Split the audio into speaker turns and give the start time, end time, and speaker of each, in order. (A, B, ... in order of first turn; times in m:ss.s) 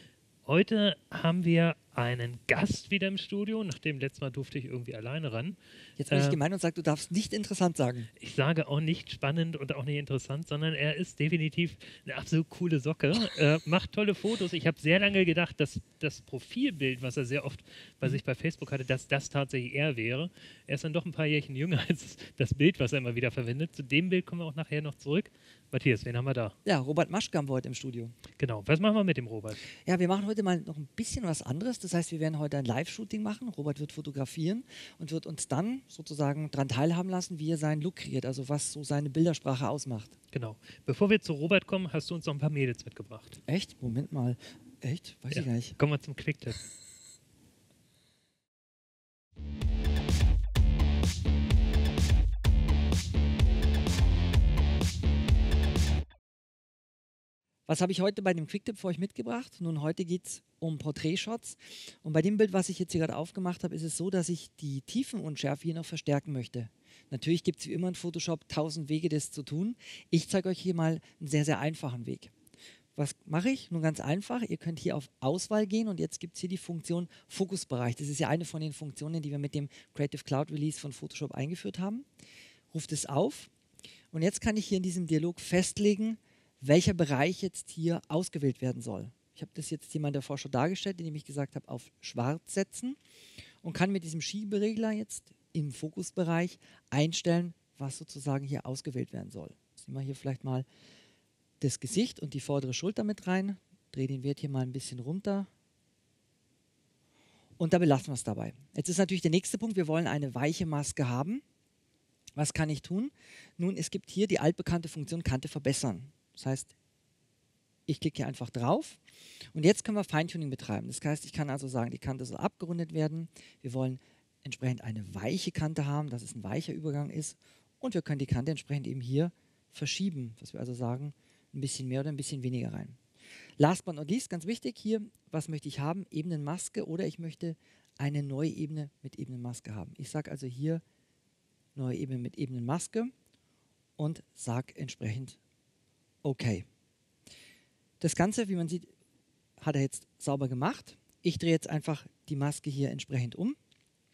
0:00.4-0:05.6 A
0:06.0-0:08.1 B
0:06.1-0:06.4 A
0:08.2-0:26.5 A
0:26.6-0:28.1 B
0:28.4-0:29.6 A
0:29.8-0:40.1 B
0:40.3-0:43.4 A
0:43.4-0:45.8 B
0:45.3-0:46.7 A
0:57.7-1:12.3 B
1:13.0-1:22.0 B
1:22.7-1:23.5 B
1:24.1-1:33.0 B
1:33.6-1:40.6 B
1:41.6-1:45.5 B
1:47.6-1:51.4 B
1:52.4-1:56.7 B
1:57.9-1:59.0 B
1:59.5-2:13.0 B
2:13.6-2:20.8 B
2:21.7-2:23.1 B
2:24.0-2:25.4 B
2:26.2-2:26.6 B
2:28.0-2:28.9 B
2:29.6-2:33.6 B